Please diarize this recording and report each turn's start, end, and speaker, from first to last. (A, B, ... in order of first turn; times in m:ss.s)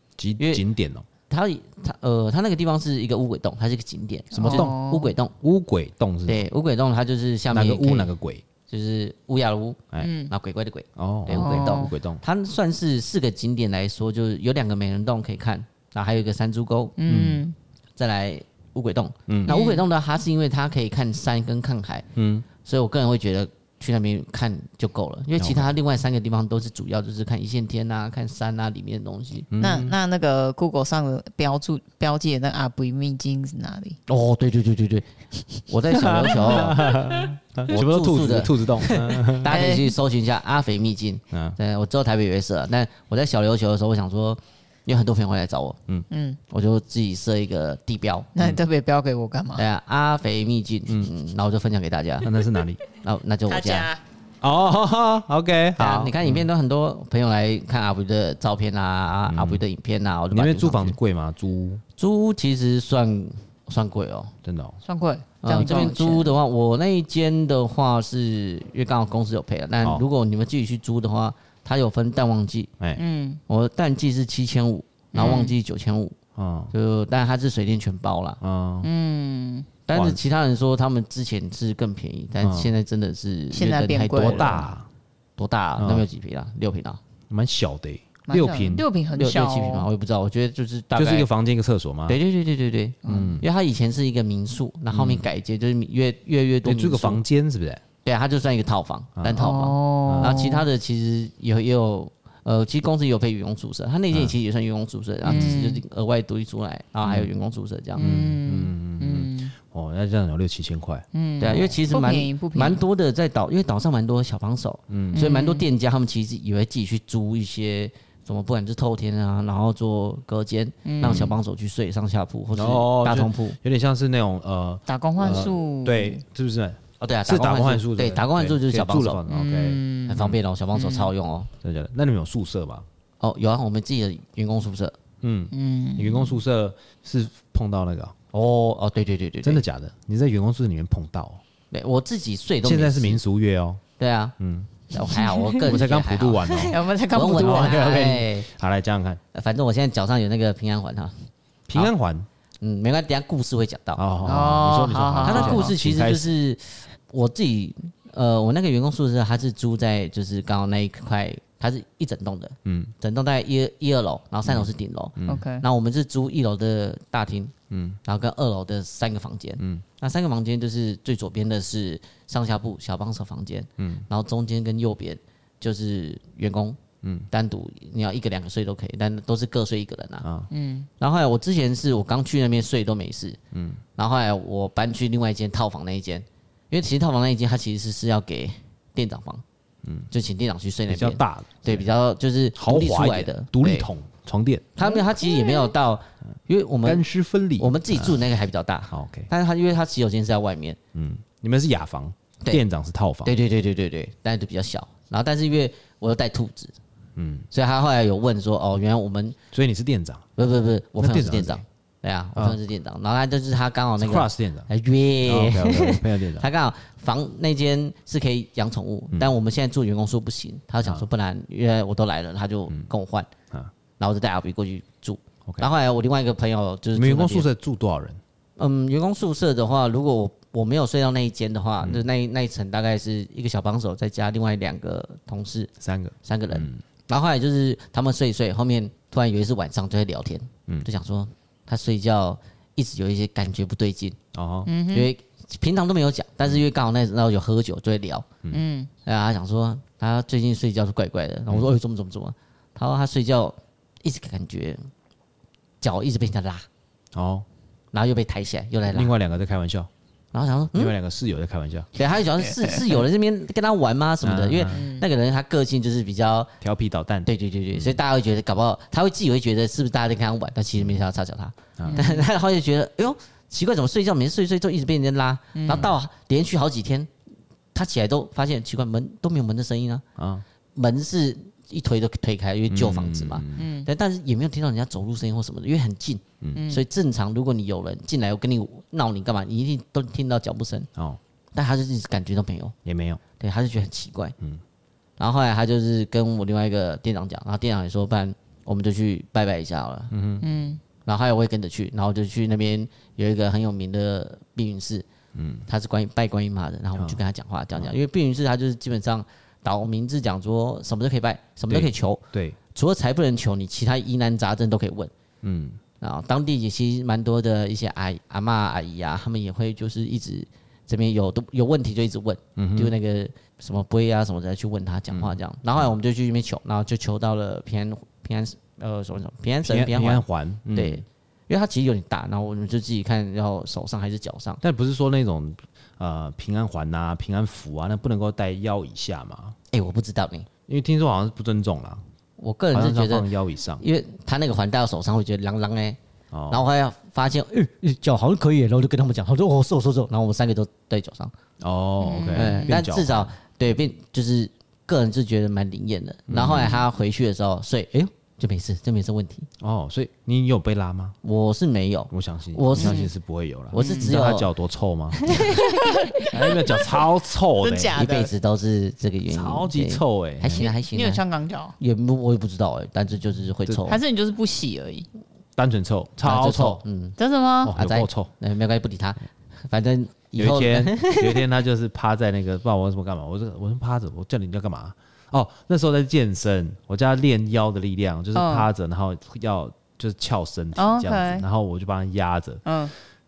0:00.2-0:01.0 A
0:01.3-0:05.3 B
0:04.3-0:04.7 A
0:04.3-0:05.1 C
0:05.4-0:06.5 A
0:06.2-0:08.1 B
0:07.5-0:08.4 A
0:08.7-0:16.9 B
0:10.0-0:10.3 C
0:11.0-0:12.2 A
0:11.3-0:11.9 C
0:17.0-0:17.5 C
0:17.0-0:17.4 A
0:18.0-0:22.0 B
0:19.3-0:19.6 A
0:19.5-0:19.8 C
0:22.2-0:22.4 A
0:22.6-0:29.5 B
0:25.4-0:25.7 A
0:29.5-0:30.0 A
0:29.6-0:34.0 C
0:34.1-0:35.1 B
0:35.7-0:37.0 B
0:35.9-0:39.6 A
0:36.1-0:37.0 C
0:37.7-0:45.8 B
0:39.4-0:39.9 C
0:41.3-0:41.6 A
0:46.1-0:46.4 C
0:46.5-0:48.3 B
0:48.3-0:49.6 C
0:49.6-0:52.3 B
0:52.2-0:52.8 A
0:53.0-0:53.9 B
0:53.5-0:54.0 C
0:54.4-0:56.4 A
0:55.8-1:01.0 B
0:59.3-0:59.6 A
1:00.3-1:01.8 A
1:02.0-1:04.3 B
1:04.4-1:04.8 A
1:04.8-1:06.3 C
1:05.4-1:12.7 B
1:13.0-1:13.4 C
1:13.5-1:16.2 B
1:15.1-1:15.6 C
1:16.4-1:16.7 A
1:16.7-1:18.4 B
1:18.4-1:18.9 A
1:18.8-1:19.7 C
1:19.9-1:24.6 B
1:19.9-1:20.2 A
1:22.4-1:22.7 A
1:23.5-1:24.6 C
1:24.1-1:24.9 A
1:25.4-1:27.0 B
1:25.8-1:26.0 A
1:27.3-1:28.9 A
1:28.3-1:29.9 C
1:29.2-1:31.3 B
1:30.9-1:32.2 A
1:32.1-1:37.2 B
1:33.0-1:33.4 C
1:33.0-1:33.4 A
1:34.9-1:35.2 A
1:36.6-1:37.8 A
1:38.0-1:48.0 B
1:39.2-1:39.4 A
1:39.4-1:40.6 C
1:40.0-1:40.4 A
1:45.2-1:45.8 C
1:48.0-1:49.5 C
1:48.0-1:51.8 A
1:51.1-1:52.8 C
1:51.4-2:03.6 B
1:54.9-1:55.3 A
1:55.1-1:55.7 C
2:00.8-2:01.4 C
2:01.0-2:01.3 A
2:02.5-2:10.4 A
2:04.9-2:06.2 C
2:07.0-2:09.2 B
2:09.3-2:11.1 C
2:10.0-2:11.5 B
2:11.6-2:12.8 A
2:13.2-2:14.9 B
2:15.2-2:18.1 A
2:15.5-2:16.4 C
2:18.3-2:19.6 B
2:19.4-2:21.4 A
2:21.7-2:23.2 B
2:22.6-2:23.8 A
2:24.0-2:24.3 B
2:24.4-2:24.7 A
2:24.9-2:28.5 B
2:25.0-2:25.6 C
2:25.6-2:26.8 A
2:26.6-2:28.2 C
2:27.4-2:29.2 A
2:29.3-2:31.9 B
2:31.7-2:32.3 A
2:32.6-2:34.0 B
2:34.0-2:36.3 A
2:34.2-2:35.7 C
2:35.2-2:47.5 B
2:42.6-2:42.9 A
2:44.5-2:45.4 A
2:45.2-2:45.6 C
2:47.7-2:48.0 A
2:48.0-2:56.8 B
2:53.8-2:54.0 A
2:57.0-2:57.3 A
2:57.3-3:00.3 B
3:00.2-3:00.5 A
3:00.5-3:00.9 C
3:01.0-3:03.4 B
3:03.5-3:03.8 A
3:04.0-3:09.4 B
3:10.1-3:13.9 B
3:10.9-3:11.9 A
3:12.6-3:14.6 A
3:14.8-3:17.0 B
3:14.8-3:15.7 C
3:16.8-3:18.2 A
3:17.6-3:20.8 B
3:18.9-3:19.3 A
3:20.9-3:23.3 A
3:23.2-3:26.7 B
3:27.2-3:27.5 A
3:27.5-3:29.4 B
3:29.5-3:30.3 A
3:30.4-3:43.3 B
3:31.0-3:31.6 A
3:34.0-3:34.7 A
3:35.2-3:36.5 A
3:44.0-3:47.5 B
3:46.9-3:48.2 A
3:48.6-3:55.7 B
3:51.8-3:52.0 A
3:55.8-3:56.8 A
3:56.2-4:04.2 B
4:04.3-4:04.7 A
4:04.7-4:05.1 C
4:04.9-4:08.2 B
4:08.5-4:08.9 C
4:09.0-4:14.8 B
4:15.8-4:16.6 B
4:17.1-4:17.4 A
4:17.9-4:19.1 B
4:18.9-4:19.9 A
4:20.3-4:20.9 B
4:20.7-4:21.9 A
4:21.9-4:26.5 B
4:22.5-4:22.9 C
4:24.2-4:24.8 A
4:24.7-4:25.0 C
4:26.6-4:28.0 A
4:27.2-4:37.1 B
4:31.9-4:32.2 C
4:35.5-4:35.9 C
4:35.7-4:35.9 A
4:37.7-4:40.0 B
4:40.2-4:40.4 A
4:40.8-4:50.9 B
4:42.7-4:43.7 A
4:43.6-4:43.9 C
4:46.5-4:46.8 C
4:51.5-4:52.7 B
4:52.8-4:53.2 A
4:53.4-4:54.4 B
4:55.2-5:00.1 B
5:00.1-5:00.4 A
5:00.4-5:00.8 C
5:01.0-5:05.0 B
5:05.3-5:05.6 A
5:05.7-5:12.2 B
5:11.7-5:12.6 A
5:12.7-5:15.1 B
5:15.4-5:15.8 A
5:16.0-5:34.6 B
5:22.6-5:22.9 A
5:25.1-5:25.4 A
5:29.6-5:31.0 A
5:34.6-5:39.6 A
5:39.7-5:40.5 B
5:40.7-5:42.0 A
5:42.4-5:46.0 B
5:42.7-5:43.8 A
5:46.3-5:46.6 A
5:46.5-5:51.3 B
5:51.6-5:53.3 A
5:52.0-5:52.8 C
5:52.3-5:59.5 B
5:56.3-5:56.8 A
5:56.5-5:56.8 C
5:59.6-6:01.2 A
6:01.2-6:03.1 B
6:02.1-6:05.3 A
6:02.8-6:03.1 C
6:03.7-6:04.5 B
6:03.7-6:04.1 C
6:05.2-6:05.6 B
6:05.3-6:07.0 C
6:06.3-6:08.0 A
6:07.6-6:08.3 C
6:07.9-6:11.2 B
6:09.3-6:10.7 A
6:10.5-6:11.7 C
6:11.8-6:14.0 B
6:13.9-6:15.1 C
6:15.6-6:16.8 A
6:16.2-6:17.2 B
6:17.2-6:17.7 C
6:17.6-6:18.3 A
6:17.7-6:21.4 B
6:20.4-6:32.6 A
6:28.3-6:28.7 C
6:30.8-6:31.4 C
6:32.6-6:32.9 C